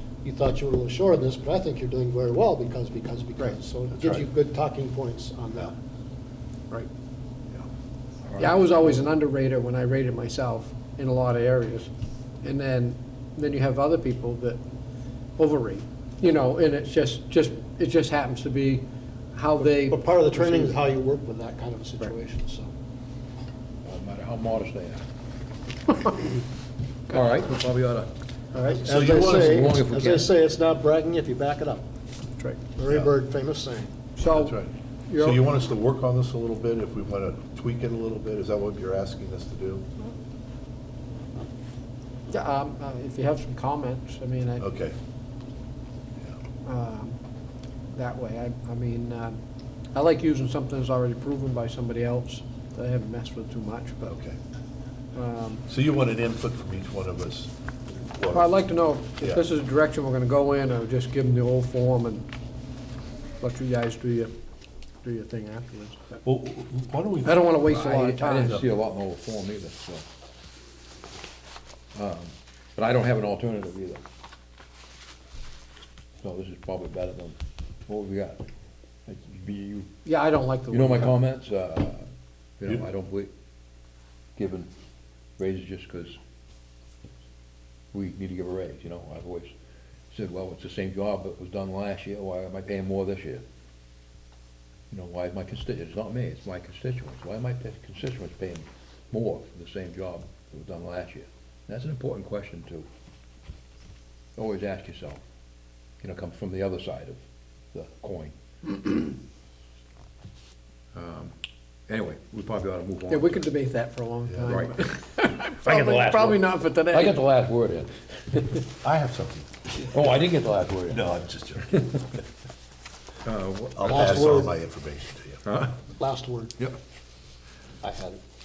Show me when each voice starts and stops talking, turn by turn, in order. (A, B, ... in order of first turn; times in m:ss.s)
0:00.2-0:05.7 A
0:08.3-0:08.6 B
0:08.4-0:11.9 C
0:12.4-0:14.6 C
0:15.4-0:20.8 C
0:19.7-0:22.7 A
0:23.8-0:25.0 B
0:27.1-0:28.1 B
0:28.5-0:28.8 C
0:28.6-0:31.8 A
0:28.8-0:29.5 D
0:29.2-0:30.3 B
0:32.8-0:33.9 A
0:32.9-0:33.1 D
0:34.2-0:34.6 C
0:34.3-0:39.8 D
0:35.1-0:35.4 C
0:42.3-0:44.6 C
0:44.6-0:44.9 D
0:46.6-0:47.2 C
0:47.9-0:49.4 C
0:49.9-0:54.2 C
0:54.1-0:54.4 D
0:55.1-0:55.6 C
0:55.7-0:57.5 D
0:58.0-0:58.5 D
0:58.3-1:02.3 C
1:03.4-1:04.3 C
1:05.0-1:06.0 C
1:06.2-1:07.7 D
1:07.2-1:08.6 C
1:07.7-1:10.0 B
1:11.9-1:14.0 B
1:16.2-1:17.4 B
1:17.9-1:18.4 B
1:19.1-1:19.9 B
1:20.0-1:21.2 C
1:20.7-1:22.1 B
1:22.6-1:23.3 B
1:24.4-1:24.7 B
1:25.4-1:26.2 B
1:27.9-1:29.5 B
1:30.1-1:33.4 B
1:34.9-1:42.9 B
1:44.4-1:45.2 B
1:46.0-1:47.2 B
1:47.7-1:48.8 B
1:50.9-1:51.3 B
1:51.9-1:53.5 B
1:53.1-1:57.2 C
1:54.4-1:54.8 B
1:55.5-1:58.6 B
1:58.8-1:59.7 D
1:59.8-2:01.0 B
2:00.9-2:02.0 D
2:03.2-2:04.1 B
2:03.8-2:05.4 D
2:03.8-2:04.5 A
2:05.4-2:05.8 B
2:06.0-2:06.5 A
2:07.8-2:08.2 A